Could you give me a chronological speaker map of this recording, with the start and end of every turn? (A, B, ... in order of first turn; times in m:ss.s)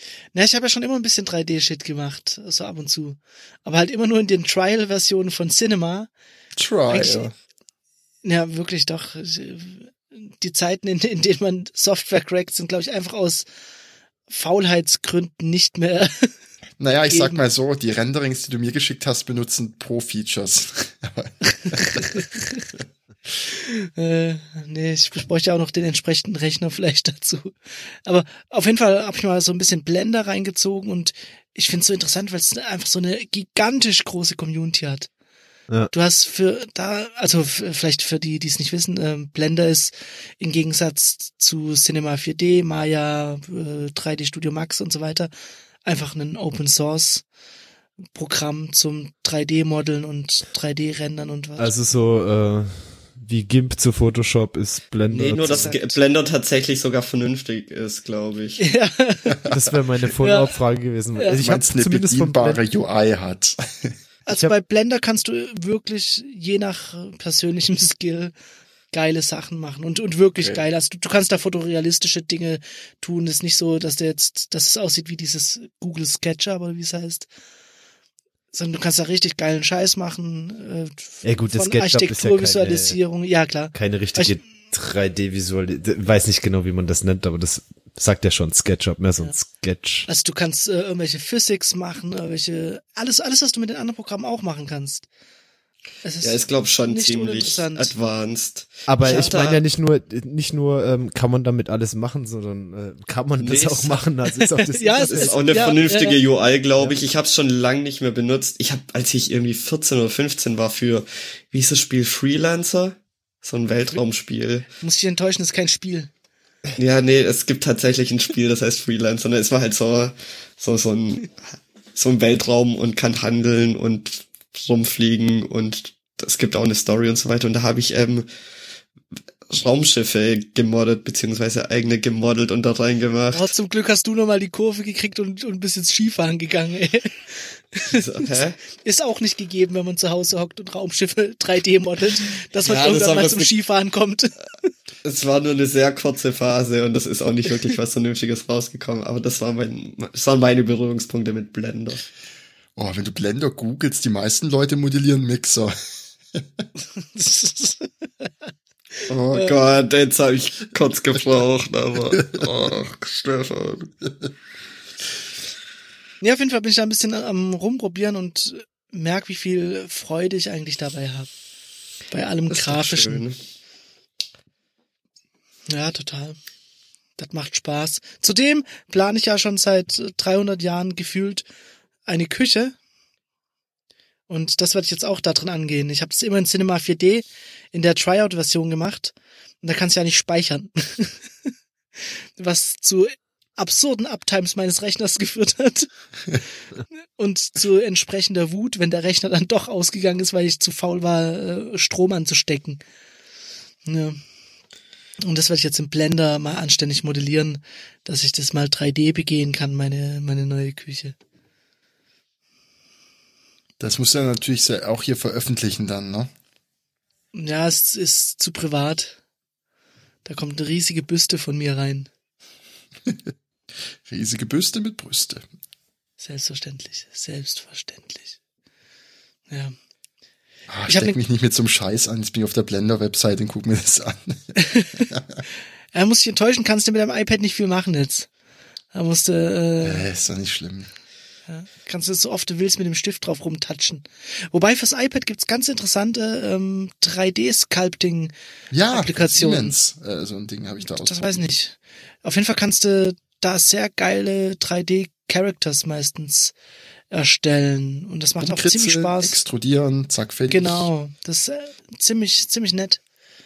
0:00.3-0:06.1 A
0:06.6-0:07.3 B
0:06.9-0:07.3 A
0:08.2-0:13.5 A
0:14.3-0:16.3 A
0:16.8-0:22.2 B
0:17.1-0:17.4 A
0:21.6-0:22.6 A
0:23.5-0:35.1 A
0:35.9-0:45.3 A
0:45.8-0:47.2 A
0:48.1-0:51.7 A
0:51.6-0:56.0 C
0:55.1-0:58.6 D
0:58.6-0:59.5 A
0:59.5-1:02.6 C
1:00.2-1:00.6 A
1:01.2-1:01.4 A
1:01.4-1:04.0 B
1:04.3-1:08.3 A
1:08.9-1:17.3 A
1:18.5-1:24.4 A
1:21.2-1:23.0 C
1:23.7-1:30.1 C
1:30.1-1:35.1 A
1:36.0-1:37.9 A
1:36.2-1:39.6 D
1:38.9-1:45.6 C
1:43.4-1:44.0 D
1:44.4-1:46.2 A
1:45.1-1:54.7 D
1:54.8-1:56.1 A
1:56.8-2:01.4 D
2:02.0-2:08.3 D
2:09.5-2:13.5 D
2:13.3-2:24.7 A
2:17.9-2:18.6 D
2:22.6-2:23.5 D
2:25.0-2:32.0 D
2:32.8-2:35.7 B
2:37.0-2:38.3 A
2:39.1-2:42.8 D
2:42.1-2:44.3 B
2:46.2-2:51.3 A
2:52.1-2:53.2 A
2:52.5-2:53.4 D
2:55.7-2:56.4 A
2:57.2-3:01.5 A
3:02.1-3:02.8 A
3:04.3-3:11.2 A
3:12.4-3:15.9 A
3:17.2-3:22.8 A
3:23.9-3:24.2 A
3:25.2-3:31.2 A
3:33.8-3:36.3 B
3:37.3-3:39.2 A
3:40.2-3:42.1 A
3:44.1-3:45.4 B
3:46.2-3:48.4 A
3:49.5-3:49.8 A
3:50.7-3:55.4 B
3:50.9-3:51.2 A
3:54.6-3:55.1 A
3:55.9-3:58.3 A
3:58.9-4:00.1 A
3:59.8-4:00.9 B
4:01.5-4:08.3 A
4:08.7-4:11.5 B
4:08.9-4:09.8 A
4:10.8-4:16.6 A
4:17.1-4:19.4 A
4:18.4-4:20.9 B
4:20.5-4:23.0 A